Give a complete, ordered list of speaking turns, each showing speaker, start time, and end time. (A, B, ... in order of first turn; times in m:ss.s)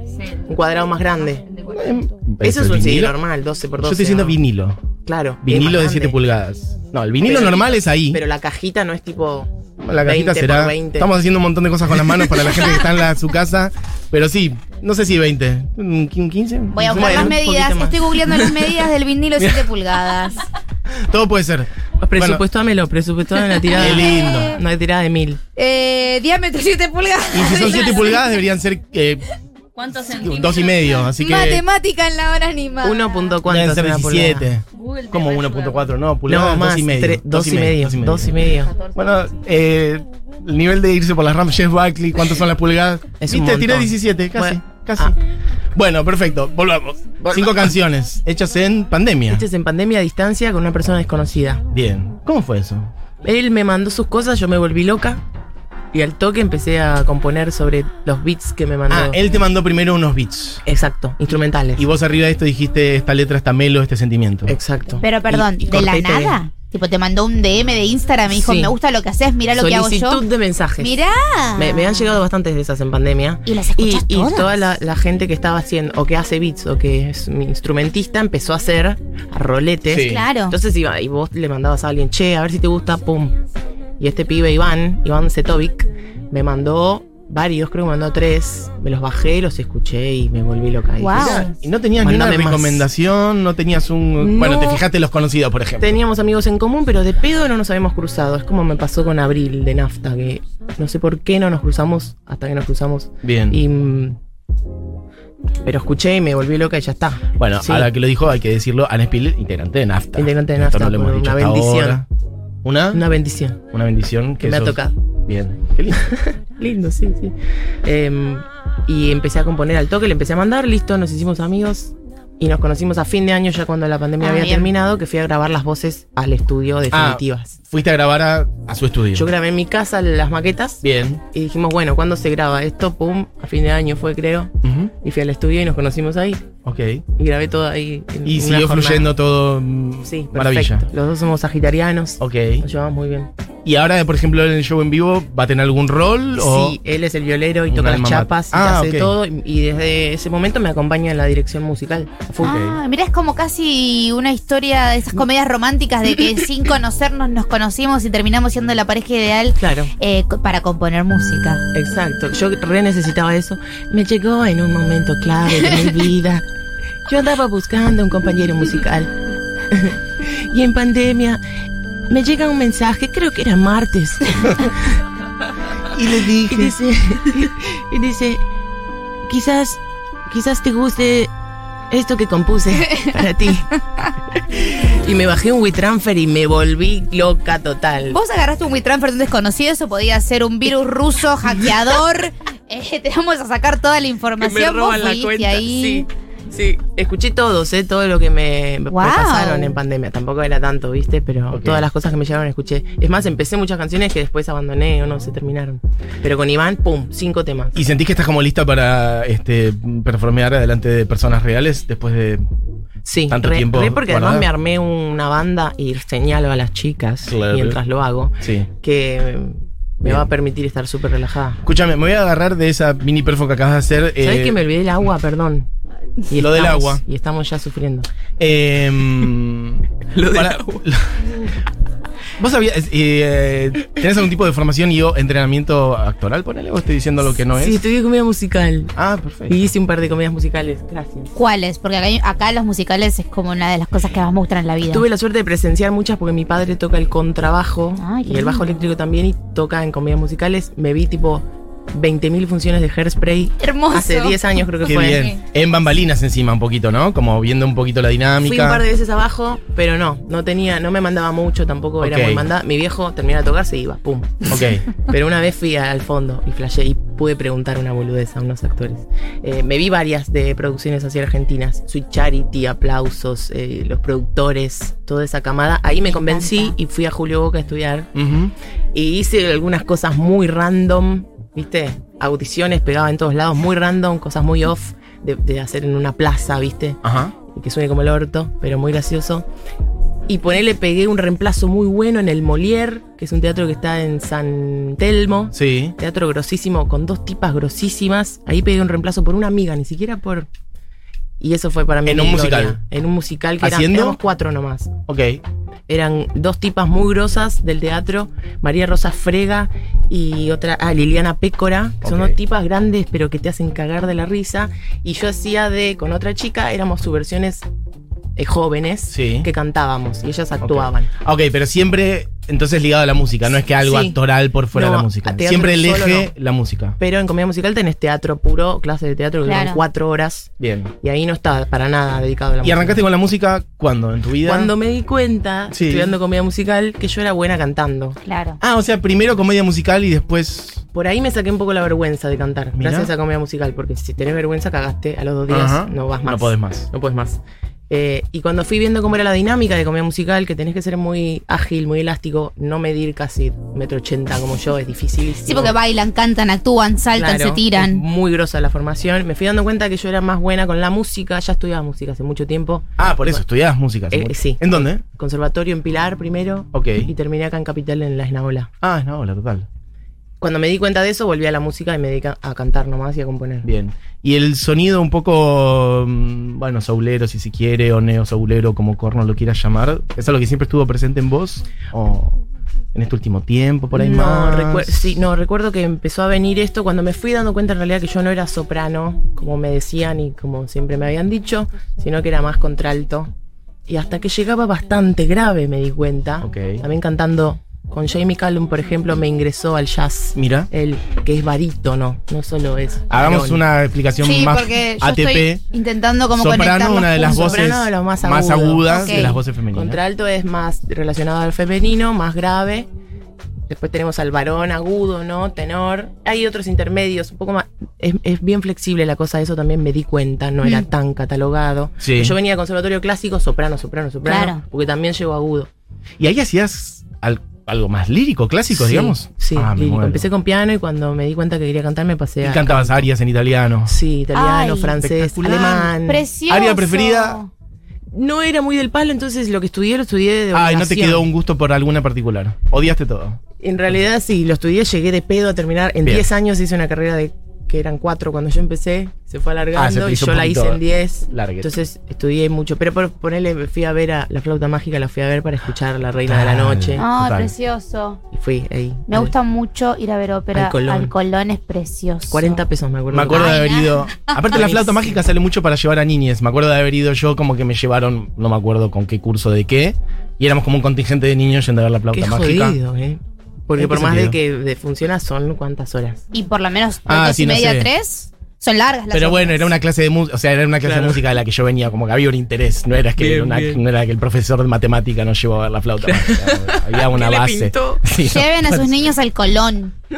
0:00.4-0:01.5 A
0:01.5-0:02.0 B
0:01.7-0:03.2 C
0:02.4-0:04.4 A
0:03.8-0:04.8 C
0:05.0-0:06.2 A
0:05.4-0:08.2 C
0:07.2-0:11.1 A
0:09.8-0:17.4 C
0:16.7-0:20.4 D
0:16.8-0:18.2 A
0:18.3-0:18.7 C
0:19.4-0:19.7 C
0:20.9-0:22.4 C
0:22.0-0:25.4 A
0:23.6-0:24.6 D
0:23.7-0:24.6 C
0:25.6-0:28.2 D
0:27.3-0:29.3 C
0:29.7-0:31.1 B
0:30.1-0:31.6 C
0:31.2-0:33.4 D
0:32.8-0:34.5 A
0:33.4-0:45.1 C
0:34.7-0:35.9 B
0:36.3-0:38.7 A
0:43.2-0:45.2 A
0:45.7-0:49.4 C
0:47.2-0:47.7 A
0:49.3-0:51.6 A
0:51.7-0:52.9 C
0:53.2-0:55.2 A
0:55.9-0:59.2 A
0:58.9-1:00.6 C
1:00.6-1:01.8 A
1:01.8-1:04.5 C
1:04.5-1:06.4 A
1:05.0-1:10.2 D
1:08.3-1:08.7 A
1:09.6-1:11.0 A
1:10.8-1:12.1 D
1:11.5-1:23.4 A
1:13.4-1:14.5 D
1:19.9-1:20.3 C
1:20.0-1:20.6 D
1:24.0-1:32.9 A
1:31.0-1:31.5 D
1:31.1-1:36.0 C
1:34.2-1:34.8 A
1:35.8-1:44.2 A
1:43.2-1:43.6 C
1:45.6-1:47.9 A
1:47.4-1:52.0 C
1:50.2-1:52.0 A
1:52.6-1:53.0 C
1:52.9-1:53.6 A
1:53.7-1:56.1 C
1:54.4-1:54.9 A
1:56.0-2:07.6 A
2:04.2-2:04.7 D
2:06.9-2:09.3 C
2:09.1-2:16.4 A
2:10.8-2:11.2 C
2:14.6-2:14.9 C
2:16.6-2:17.0 C
2:17.2-2:19.1 A
2:18.2-2:20.9 C
2:20.0-2:23.3 A
2:22.2-2:22.6 C
2:23.6-2:26.8 C
2:26.4-2:32.6 A
2:27.7-2:29.1 C
2:32.4-2:32.8 C
2:32.4-2:41.6 D
2:39.6-2:39.9 A
2:41.7-2:46.4 A
2:47.1-2:49.1 A
2:49.7-2:51.4 A
2:52.1-2:54.7 A
2:54.4-2:54.7 C
2:55.9-2:56.8 C
2:56.4-2:58.4 A
2:59.2-3:01.3 A
3:01.9-3:03.7 A
3:02.9-3:03.1 D
3:04.3-3:08.2 A
3:08.1-3:16.0 D
3:14.4-3:27.8 A
3:18.9-3:19.7 D
3:21.5-3:21.9 C
3:27.7-3:32.4 C
3:33.0-3:41.6 A
3:33.3-3:34.5 C
3:37.2-3:37.8 C
3:38.4-3:38.7 C
3:41.6-3:44.6 C
3:44.2-3:45.7 A
3:46.3-3:48.1 A
3:46.3-3:47.0 C
3:48.4-3:51.2 C
3:50.1-3:50.8 A
3:52.4-3:57.8 C
3:57.5-3:58.9 A
3:58.9-3:59.6 C
3:59.5-4:01.3 A
4:01.4-4:05.0 D
4:04.9-4:15.3 A
4:08.0-4:08.8 D
4:13.6-4:14.4 D
4:14.8-4:18.8 C
4:18.4-4:38.1 A
4:22.0-4:22.5 C
4:24.5-4:24.9 C
4:36.0-4:36.7 D
4:38.1-4:38.5 C
4:38.9-4:49.4 A
4:47.0-4:47.3 C
4:50.3-5:00.5 A
4:55.5-4:55.9 C
5:01.4-5:04.9 A
5:02.0-5:02.8 C
5:03.6-5:04.2 C
5:05.1-5:05.4 C
5:05.9-5:17.6 A
5:12.0-5:12.4 C
5:18.4-5:21.1 A
5:19.1-5:19.5 C
5:20.6-5:27.0 C
5:23.8-5:24.2 A
5:24.7-5:26.3 A
5:27.0-5:30.5 A
5:29.4-5:29.8 D
5:30.6-5:30.9 C
5:31.0-5:33.0 A
5:32.6-5:34.7 C
5:34.4-5:38.2 A
5:35.7-5:36.1 C
5:38.2-5:38.6 D
5:38.6-5:40.8 C
5:40.9-5:55.8 A
5:42.8-5:43.1 C
5:45.5-5:46.9 C
5:55.4-5:58.0 D
5:57.1-6:03.4 A
6:03.0-6:05.0 C
6:04.1-6:08.7 A
6:06.7-6:07.1 C
6:08.8-6:09.7 C
6:10.4-6:13.7 A
6:13.6-6:22.4 C
6:22.9-6:25.2 C
6:23.9-6:33.3 A
6:33.9-6:43.6 A
6:36.4-6:36.8 C
6:40.3-6:40.7 C
6:43.1-6:45.6 C
6:44.2-6:47.6 D
6:46.4-6:50.0 C
6:47.2-6:52.9 A
6:48.9-6:49.4 D
6:53.7-7:05.7 A
7:02.0-7:02.3 C
7:04.2-7:04.6 D
7:06.2-7:10.3 C
7:08.7-7:13.1 A
7:12.4-7:13.9 C
7:13.8-7:16.2 A
7:14.3-7:15.0 D
7:15.0-7:16.0 C
7:16.0-7:17.5 D
7:16.5-7:17.4 C
7:18.1-7:21.3 A
7:20.5-7:23.4 C
7:23.6-7:37.0 A
7:26.0-7:26.3 C
7:29.7-7:31.8 C
7:36.2-7:37.5 C
7:37.0-7:38.2 D
7:38.3-7:39.3 A
7:39.1-7:42.6 D
7:40.5-7:41.1 A
7:42.3-7:43.6 A
7:43.1-7:52.8 C
7:43.3-7:44.8 D
7:44.5-7:45.2 A
7:52.1-7:56.2 A
7:53.7-7:54.4 C
7:56.3-7:59.7 D
7:57.0-7:57.9 C
7:59.1-8:09.1 C
8:00.8-8:01.2 A
8:03.2-8:03.8 A
8:06.0-8:08.0 A
8:08.2-8:09.9 D